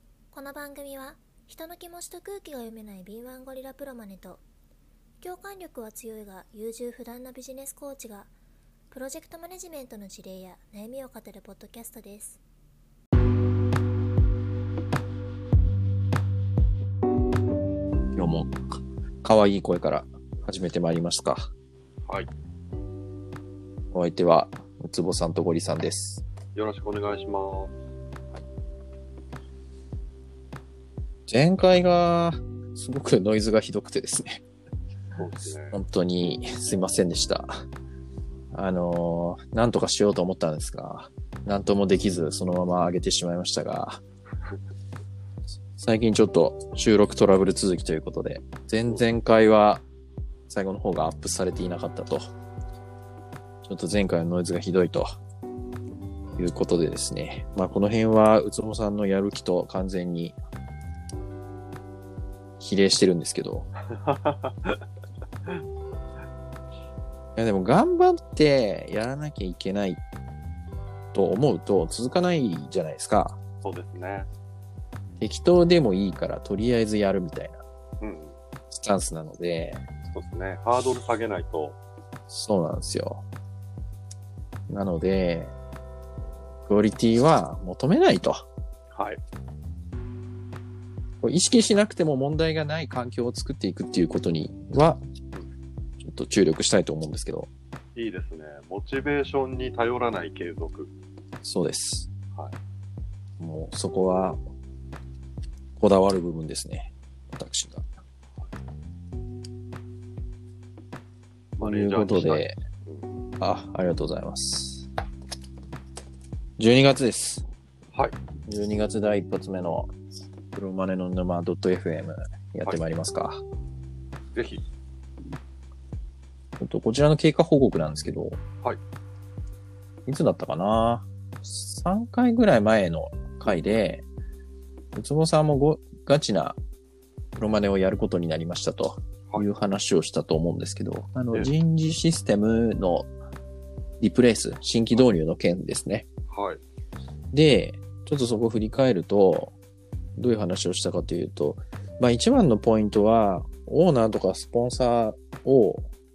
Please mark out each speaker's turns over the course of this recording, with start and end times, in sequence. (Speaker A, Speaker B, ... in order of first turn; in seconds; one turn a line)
Speaker A: 0.3-4.4
Speaker A: 5.2-8.3
Speaker A: 8.9-12.4
Speaker B: 18.1-18.6
Speaker B: 19.2-21.5
Speaker B: 23.9-26.2
Speaker C: 26.5-27.7
Speaker B: 31.3-34.4
Speaker C: 35.1-35.8
Speaker B: 35.7-37.5
Speaker B: 38.5-44.0
Speaker B: 45.8-49.8
Speaker B: 50.5-52.3
Speaker B: 53.6-55.1
Speaker B: 56.4-60.4
Speaker B: 62.6-63.7
Speaker C: 63.9-64.8
Speaker B: 67.3-70.0
Speaker B: 71.1-73.4
Speaker C: 73.6-74.3
Speaker B: 75.2-77.6
Speaker C: 78.0-78.4
Speaker B: 78.7-79.8
Speaker C: 80.1-81.8
Speaker B: 82.3-83.2
Speaker B: 84.7-85.5
Speaker B: 86.6-88.5
Speaker C: 88.9-89.2
Speaker B: 91.2-95.0
Speaker B: 96.0-97.5
Speaker C: 98.0-100.9
Speaker B: 101.4-102.1
Speaker B: 103.4-104.4
Speaker B: 105.8-107.8
Speaker C: 111.6-113.1
Speaker B: 111.6-112.6
Speaker B: 113.4-114.9
Speaker B: 116.6-117.4
Speaker B: 118.5-119.9
Speaker B: 120.5-123.4
Speaker C: 124.3-124.6
Speaker B: 126.6-128.4
Speaker B: 130.1-134.1
Speaker C: 133.4-133.8
Speaker B: 134.9-136.6
Speaker B: 137.3-143.1
Speaker B: 144.0-146.1
Speaker C: 146.3-146.6
Speaker B: 147.3-149.6
Speaker B: 150.2-155.9